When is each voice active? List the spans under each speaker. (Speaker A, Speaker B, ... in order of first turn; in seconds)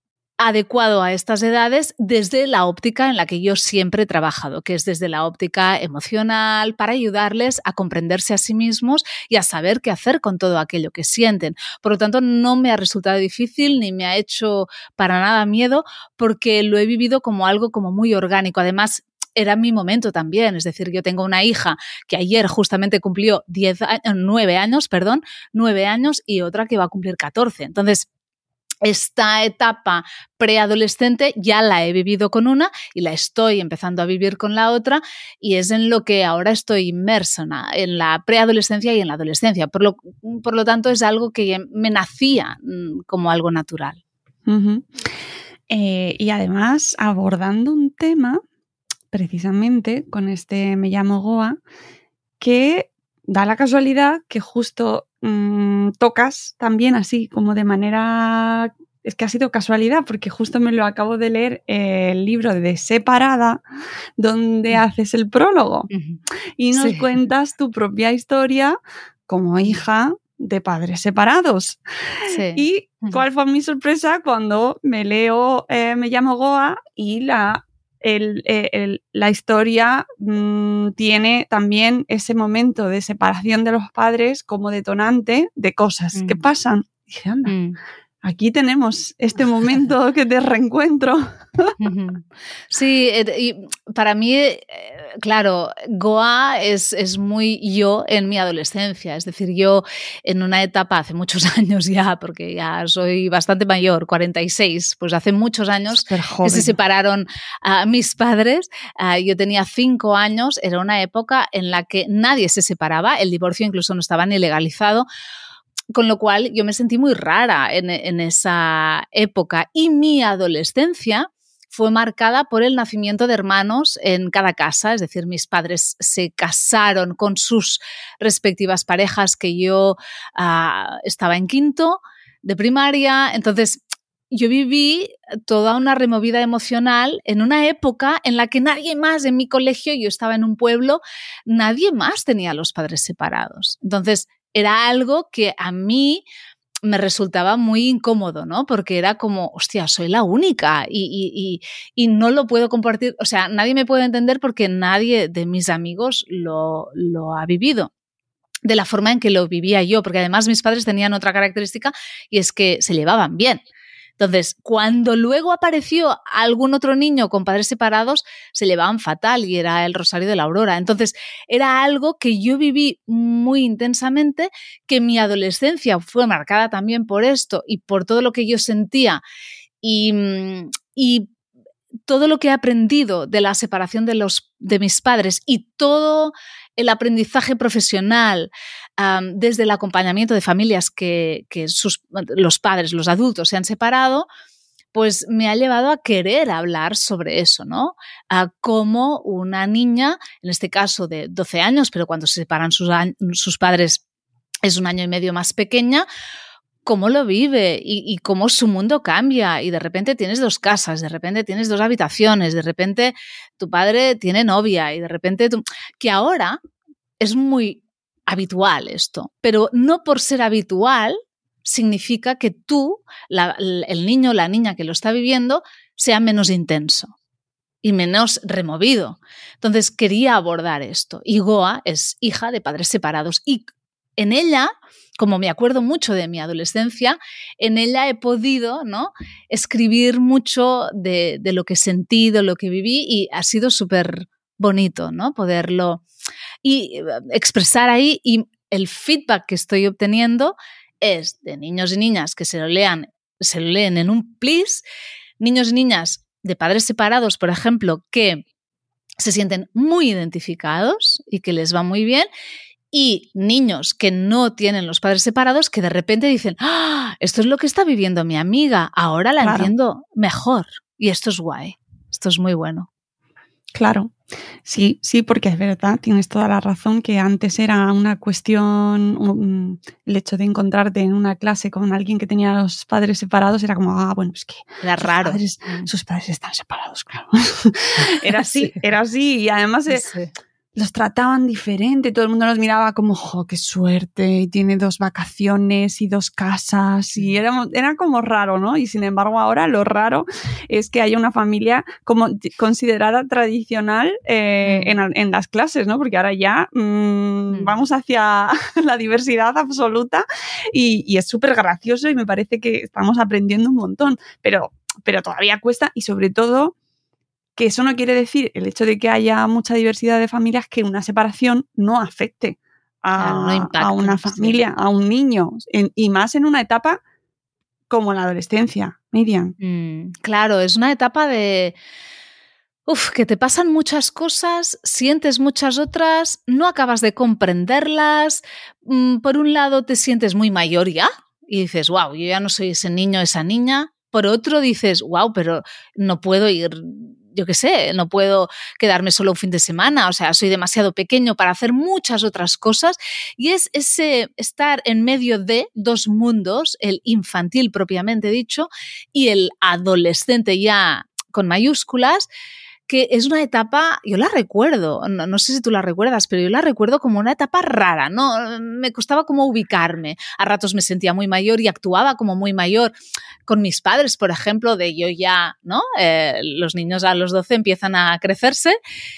Speaker A: 0.4-28.1, 28.8-44.0, 65.9-66.2, 66.7-67.1, 72.3-73.2, 86.1-86.4, 87.5-87.8, 91.8-115.1, 115.9-146.2, 146.8-157.9, 158.6-163.6, 164.2-179.2, 179.8-181.3, 182.1-194.3, 194.9-204.0, 204.6-206.1, 206.8-216.6, 217.2-227.1, 227.8-233.7, 234.2-246.0, 246.6-254.8, 255.4-258.4, 259.2-262.3, 262.9-272.9, 284.8-285.9, 288.4-288.8, 289.9-290.3, 304.6-304.9, 323.2-324.6, 329.6-331.8, 332.9-362.3, 362.9-372.9, 373.5-378.8
Speaker B: 44.5-44.9, 45.7-48.4, 49.1-51.6, 52.4-63.6, 64.2-65.9, 66.6-87.5, 88.2-91.7, 105.9-106.8, 269.4-269.7, 273.7-274.1, 274.6-290.1, 290.8-316.7, 317.6-327.0, 327.9-329.6